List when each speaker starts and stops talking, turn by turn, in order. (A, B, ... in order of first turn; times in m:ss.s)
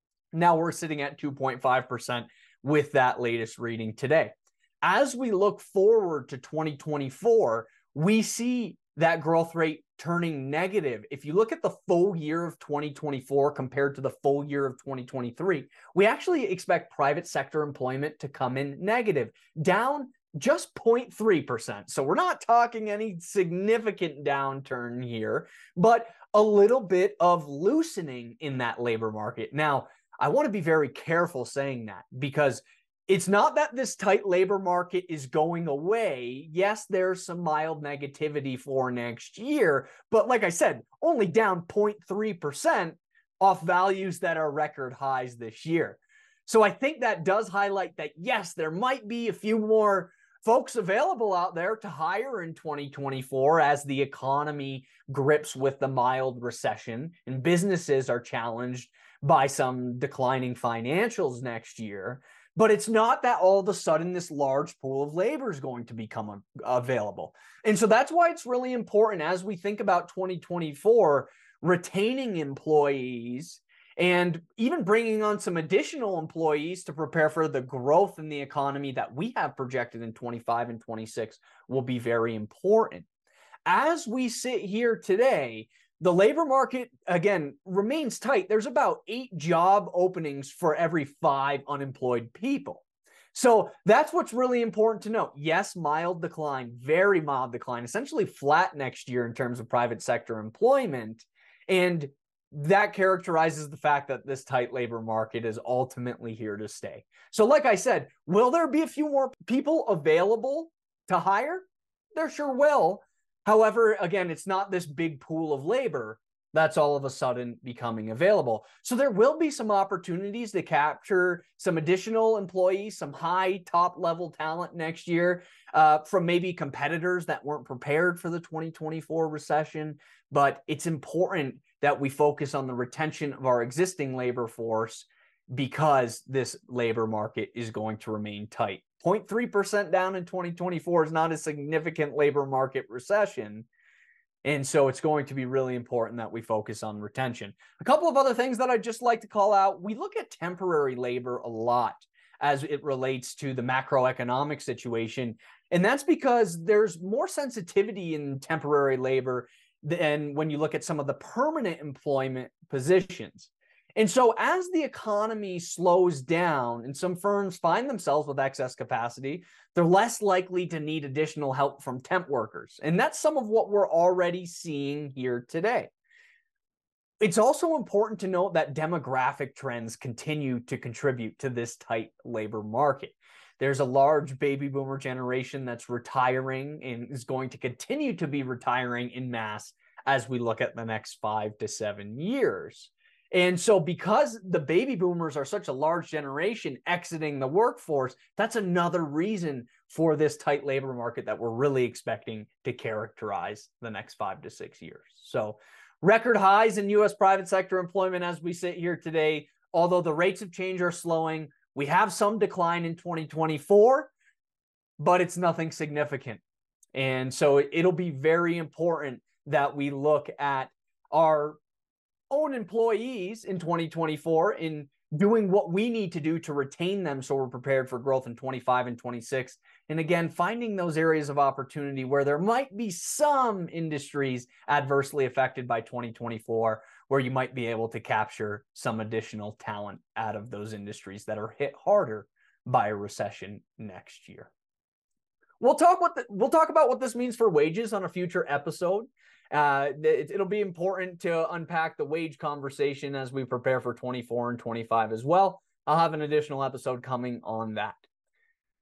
0:00.3-1:23.1 A
1:23.6-2:23.7 A
2:24.4-2:55.9 A
2:57.2-3:34.1 A
3:35.0-3:36.4 A
3:36.9-3:41.6 A
3:42.3-4:04.5 A
4:05.6-4:18.0 A